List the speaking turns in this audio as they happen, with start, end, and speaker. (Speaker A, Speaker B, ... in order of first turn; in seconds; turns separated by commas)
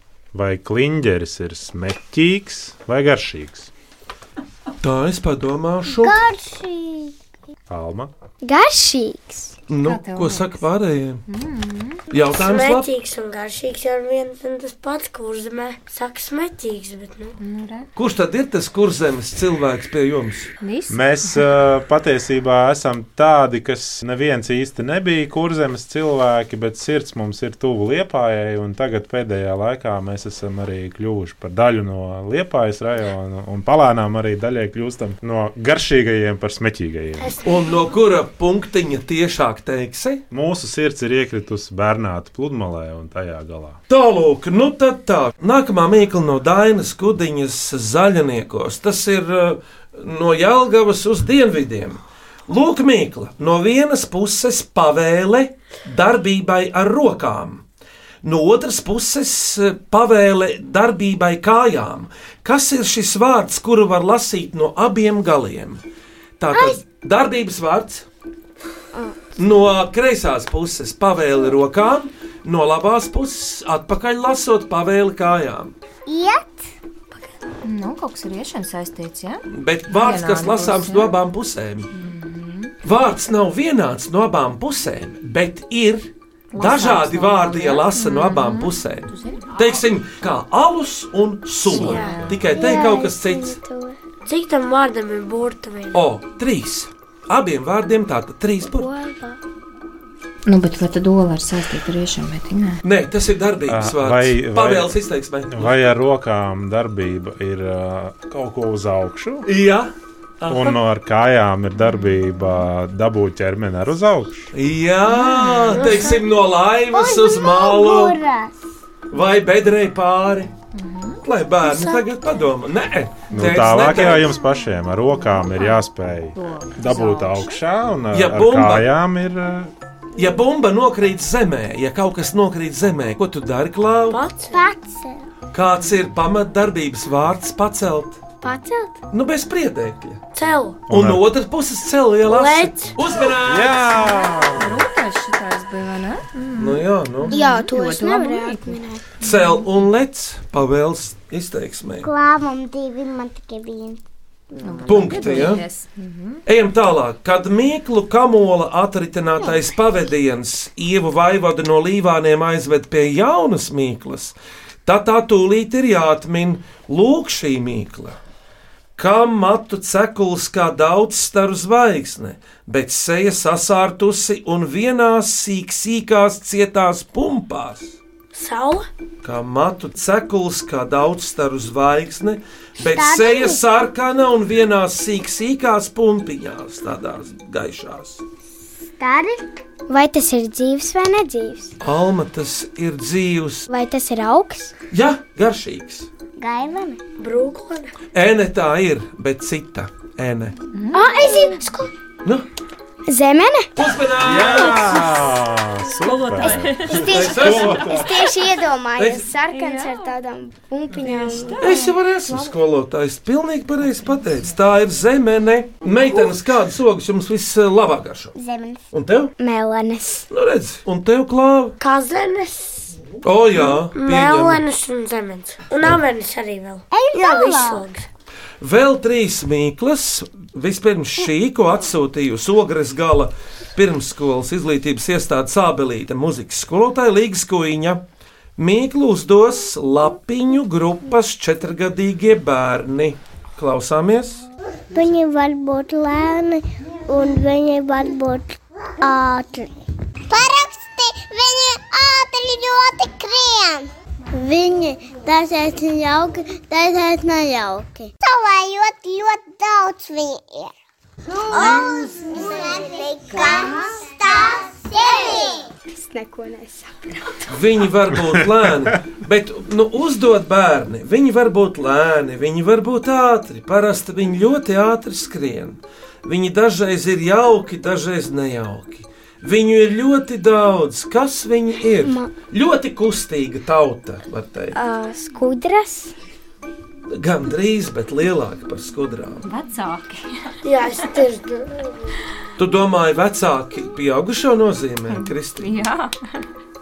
Speaker A: 0.3-3.7, Speaker B: 4.8-6.2, Speaker C: 5.8-7.1, Speaker A: 7.7-8.1, Speaker D: 8.4-9.5, Speaker B: 9.7-11.2, Speaker E: 9.8-10.6, Speaker E: 11.3-12.0, Speaker B: 12.1-12.9, Speaker F: 12.3-17.3, Speaker E: 17.4-17.9, Speaker B: 18.0-20.5, Speaker E: 20.6-21.5, Speaker A: 20.9-37.4, Speaker F: 37.2-37.9, Speaker B: 37.4-40.2, Speaker A: 40.3-43.8, Speaker B: 43.9-57.6, Speaker B: 58.2-65.8, Speaker B: 66.4-68.0, Speaker C: 66.5-66.8, Speaker B: 69.4-75.7, Speaker C: 76.1-76.7, Speaker E: 77.6-81.2, Speaker B: 79.5-81.9, Speaker E: 81.9-82.7, Speaker B: 82.8-93.6, Speaker E: 86.5-89.5, Speaker E: 91.6-92.5, Speaker D: 92.5-94.0, Speaker F: 94.3-96.0, Speaker B: 95.9-98.9, Speaker D: 98.8-99.4, Speaker E: 100.5-102.8, Speaker B: 102.8-105.8, Speaker A: 103.7-104.9, Speaker A: 105.5-109.5, Speaker B: 109.5-110.8, Speaker A: 110.5-114.5, Speaker E: 111.8-112.5, Speaker B: 114.5-118.2, Speaker E: 115.2-115.8, Speaker F: 115.7-116.2, Speaker C: 116.9-118.5, Speaker B: 119.1-120.5, Speaker E: 120.8-121.2, Speaker B: 121.2-124.3, Speaker C: 121.6-122.1, Speaker A: 123.3-129.7, Speaker E: 125.4-125.8, Speaker E: 126.3-127.6, Speaker B: 128.1-128.9, Speaker B: 130.2-134.2, Speaker F: 134.1-134.6, Speaker C: 134.5-135.2, Speaker B: 135.5-138.2, Speaker D: 138.4-138.9, Speaker B: 139.1-140.2, Speaker F: 140.3-140.8, Speaker A: 140.9-141.3, Speaker B: 140.9-144.2, Speaker F: 142.3-143.0, Speaker A: 143.4-144.8, Speaker E: 144.1-149.7, Speaker B: 146.6-147.3, Speaker D: 147.3-149.0, Speaker B: 149.2-152.1, Speaker C: 152.0-154.0, Speaker C: 154.5-155.5, Speaker E: 154.6-156.4, Speaker B: 154.9-155.6, Speaker B: 156.5-168.2, Speaker C: 159.4-159.7, Speaker B: 169.0-178.0, Speaker F: 178.3-178.9, Speaker B: 179.2-188.2, Speaker C: 182.8-183.6, Speaker C: 189.0-189.5, Speaker D: 189.9-191.7, Speaker B: 191.8-193.7, Speaker D: 193.7-194.7, Speaker B: 194.9-196.1, Speaker C: 196.4-197.0, Speaker F: 197.2-197.9, Speaker B: 198.1-200.6, Speaker E: 200.7-201.2, Speaker D: 200.9-201.9, Speaker D: 203.1-203.7, Speaker B: 203.8-205.1, Speaker A: 204.2-208.2, Speaker E: 206.0-207.1, Speaker D: 206.6-211.8, Speaker B: 206.9-208.1, Speaker B: 209.0-209.3, Speaker E: 209.5-210.0, Speaker E: 211.1-212.5, Speaker B: 211.6-218.3, Speaker C: 218.3-218.8, Speaker B: 218.9-219.3, Speaker D: 219.4-220.2, Speaker B: 220.3-221.8, Speaker F: 221.8-222.9, Speaker B: 223.2-224.6, Speaker F: 223.6-228.1, Speaker C: 226.9-227.9, Speaker B: 228.6-238.0, Speaker B: 238.6-244.4, Speaker C: 244.9-249.7, Speaker C: 250.3-260.7, Speaker C: 261.3-265.7, Speaker D: 265.9-266.9, Speaker B: 267.5-284.8, Speaker D: 284.8-286.1, Speaker B: 287.1-289.4, Speaker E: 289.4-291.1, Speaker F: 290.6-292.3, Speaker B: 292.6-295.9, Speaker E: 295.1-296.4